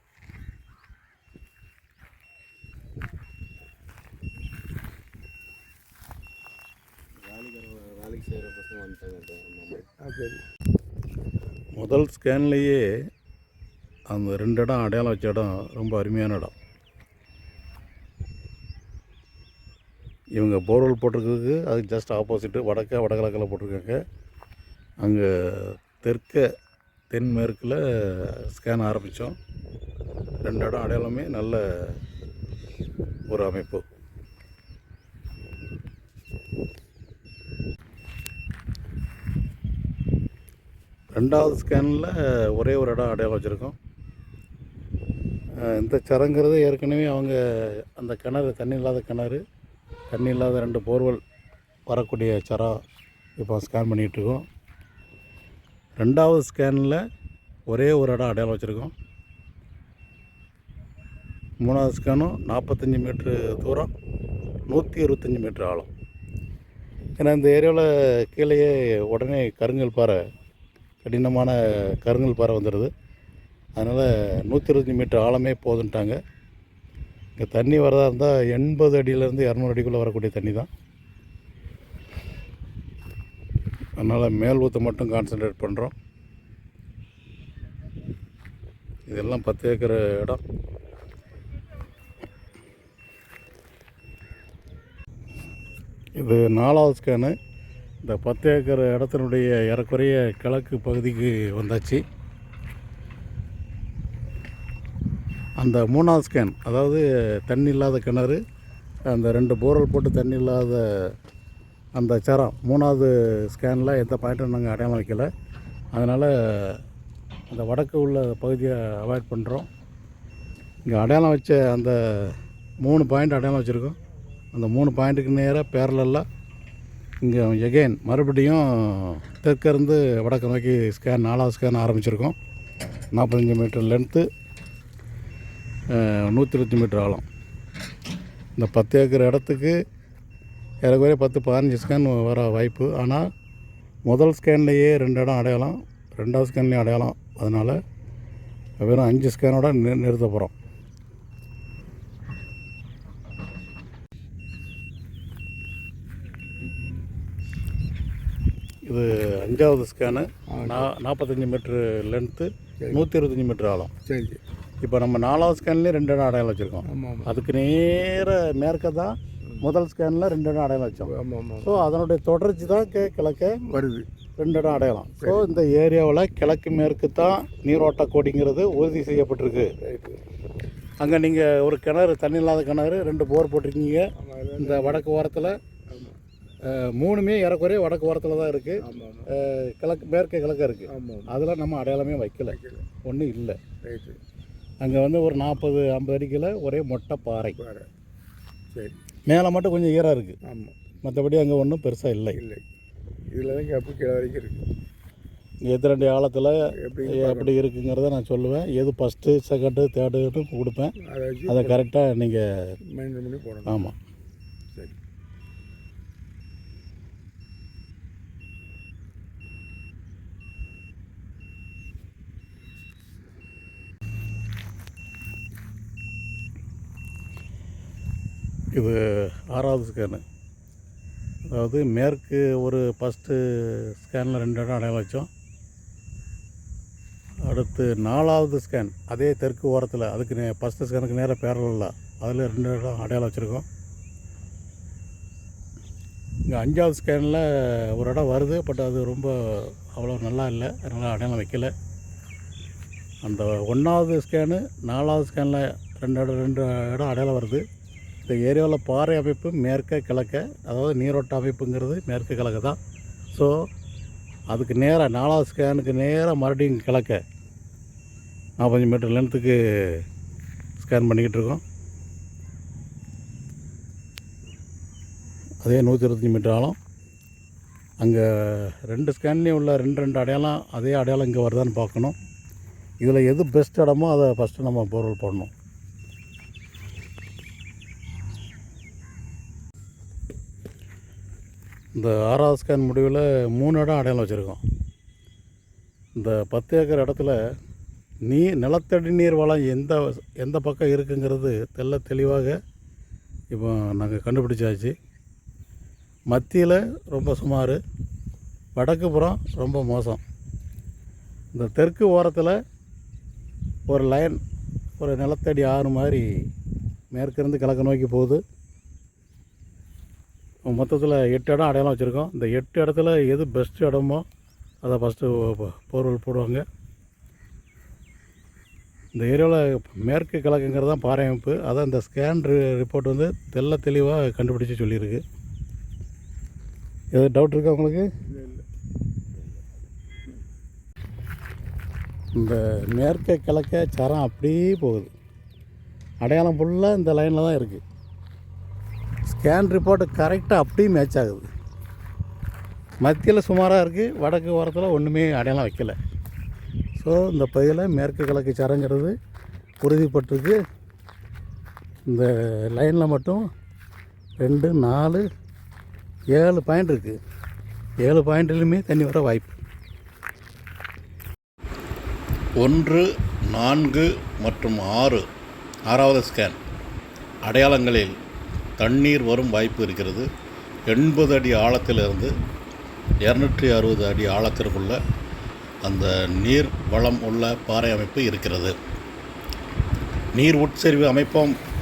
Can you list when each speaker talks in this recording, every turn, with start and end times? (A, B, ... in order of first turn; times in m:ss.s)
0:07.3-0:09.8 A
0:09.8-0:10.4 B
0:11.8-0:12.8 C
0:14.1-0:16.5 C
0:20.4-0:24.0 C
0:25.0-0:26.5 C
0:27.1-0:29.4 C
0:30.4-0:32.0 C
0:33.3-0:33.8 C
0:41.1-0:43.8 C
0:45.6-0:49.4 C
0:50.1-0:51.2 C
0:51.9-0:52.8 C
0:53.4-0:54.4 C
0:56.0-0:57.0 C
0:57.7-0:58.9 C
1:01.6-1:03.9 C
1:04.7-1:05.9 C
1:07.2-1:10.2 C
1:11.0-1:12.9 C
1:13.8-1:16.2 C
1:17.4-1:20.7 C
1:24.0-1:25.9 C
1:29.1-1:30.4 C
1:36.2-1:37.4 C
1:38.0-1:42.0 C
1:45.6-1:48.4 C
1:49.1-1:51.2 C
1:52.0-1:55.3 C
1:55.9-1:56.8 C
1:57.5-1:59.7 C
2:00.9-2:04.0 C
2:04.5-2:06.2 C
2:07.2-2:12.4 C
2:13.1-2:14.3 C
2:15.9-2:17.2 C
2:18.6-2:19.8 C
2:20.8-2:23.3 C
2:24.1-2:27.8 C
2:28.8-2:30.5 C
2:38.9-2:43.9 C
2:40.5-2:40.9 B
2:44.1-2:44.4 B
2:44.8-2:53.6 C
2:46.8-2:47.3 B
2:51.0-2:51.8 B
2:53.6-2:54.1 B
2:54.4-2:59.7 C
2:55.2-2:55.4 B
2:59.8-3:00.2 B
3:01.0-3:05.6 C
3:04.2-3:05.1 B
3:05.9-3:06.2 B
3:06.6-3:13.6 C
3:08.8-3:09.3 B
3:10.9-3:11.3 B
3:12.5-3:12.9 B
3:13.8-3:14.2 B
3:14.8-3:17.6 C
3:17.6-3:17.9 B
3:19.3-3:20.4 C
3:20.4-3:20.9 B
3:21.0-3:22.4 C
3:22.3-3:22.6 B
3:23.3-3:24.7 B
3:25.6-3:31.0 C
3:26.8-3:27.5 B
3:31.0-3:31.8 B
3:31.5-3:32.7 C
3:32.9-3:33.9 B
3:33.7-3:34.0 C
3:48.7-3:50.2 C
3:51.5-3:55.3 C
3:57.5-4:03.7 C
4:06.5-4:11.7 C
4:13.2-4:17.6 C
4:18.3-4:22.8 C
4:24.5-4:27.2 C
4:28.6-4:30.0 C
4:30.8-4:31.6 C
4:35.6-4:36.8 C
4:38.0-4:42.2 C
4:43.0-4:45.5 C
4:52.0-4:54.6 C
4:56.2-4:57.4 C
4:58.3-5:02.6 C
5:03.5-5:05.0 C
5:06.3-5:07.8 C
5:08.8-5:10.2 C
5:11.5-5:12.6 C
5:13.9-5:14.4 C
5:15.0-5:16.2 C
5:17.1-5:18.4 C
5:20.7-5:24.2 C
5:24.8-5:26.6 C
5:29.2-5:35.2 C
5:37.1-5:38.1 C
5:38.3-5:38.6 B
5:42.4-5:45.1 C
5:46.2-5:47.8 C
5:49.3-5:51.5 C
5:53.0-5:56.0 C
5:57.0-5:59.1 C
5:59.8-6:00.6 C
6:02.1-6:03.4 C
6:04.4-6:05.2 C
6:06.3-6:07.2 C
6:08.0-6:09.6 C
6:12.6-6:15.3 C
6:15.9-6:16.6 C
6:17.4-6:18.1 C
6:18.8-6:20.3 C
6:20.9-6:22.3 C
6:23.2-6:25.0 C
6:25.8-6:28.8 C
6:30.3-6:31.6 C